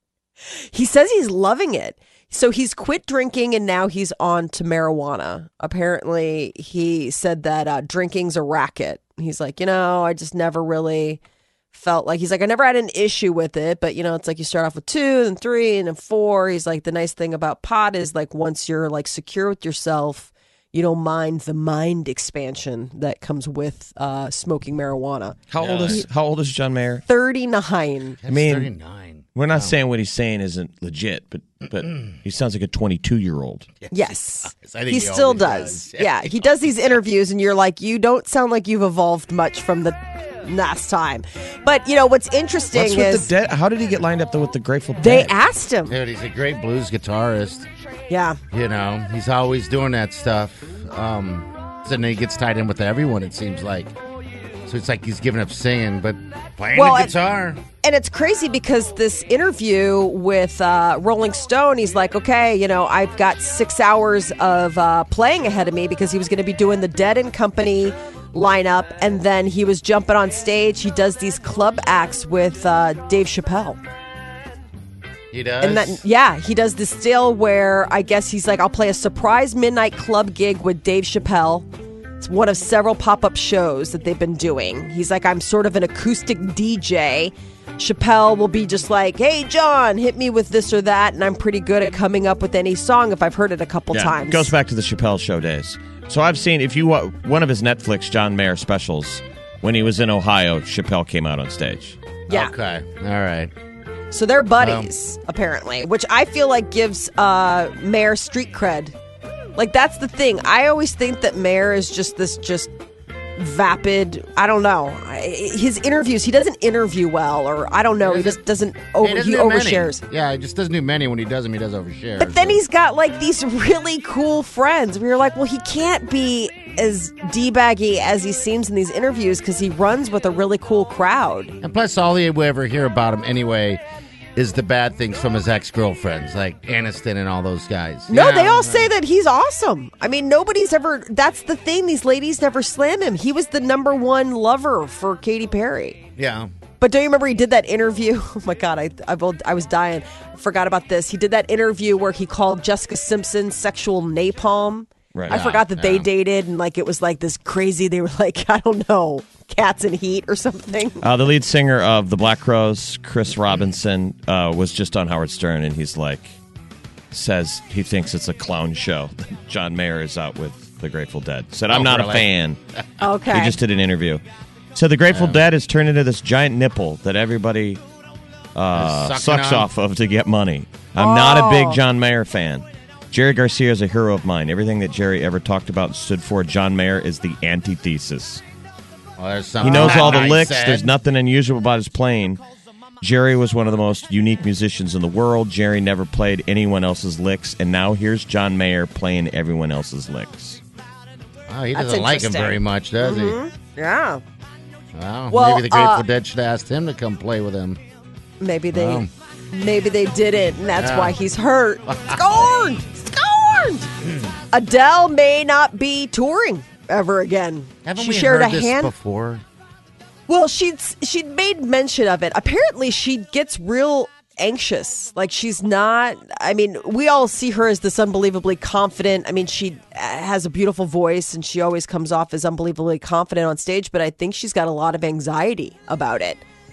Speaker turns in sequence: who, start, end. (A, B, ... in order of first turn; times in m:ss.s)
0:00.7-0:11.2 A
0:11.7-0:26.0 A
0:25.5-0:27.0 B
0:25.6-0:26.0 C
0:27.0-0:28.2 A
0:28.2-0:29.7 C
0:28.3-0:28.7 B
0:29.3-0:33.7 B
0:33.8-0:36.7 C
0:33.9-0:43.3 A
0:42.7-0:45.4 B
0:45.0-0:46.0 A
0:45.9-0:47.6 C
0:48.1-0:48.4 A
0:48.5-0:54.0 C
0:54.7-0:57.6 C
0:56.7-0:57.1 A
0:57.8-1:13.8 A
1:15.3-1:16.0 C
1:15.6-1:21.7 A
1:22.2-1:34.5 A
1:33.9-1:42.0 B
1:42.3-1:43.5 C
1:44.1-1:48.9 A
1:44.6-1:44.9 C
1:49.6-1:52.7 A
1:53.4-2:00.0 A
1:58.0-1:58.4 C
1:59.0-2:02.6 C
2:02.2-2:11.6 A
2:11.6-2:13.8 C
2:14.3-2:18.9 C
2:18.1-2:26.0 A
2:26.2-2:26.5 C
2:26.8-2:41.0 A
2:35.1-2:35.4 B
2:35.3-2:36.1 C
2:41.0-2:46.4 B
2:47.1-2:52.6 B
2:51.7-2:52.3 C
2:53.0-2:53.6 A
2:53.3-2:54.2 B
2:54.7-2:57.8 B
2:55.1-2:55.4 C
2:58.5-3:08.4 B
2:58.7-2:59.7 C
3:01.0-3:01.8 A
3:09.2-3:10.9 C
3:09.6-3:12.4 B
3:09.7-3:10.2 A
3:13.0-3:20.6 B
3:21.5-3:23.4 C
3:21.7-3:24.2 A
3:24.9-3:27.8 C
3:25.3-3:26.0 A
3:28.4-3:33.9 A
3:28.7-3:29.1 C
3:30.7-3:31.2 C
3:31.9-3:32.4 C
3:34.5-3:38.9 A
3:37.8-3:39.4 C
3:40.3-3:56.4 A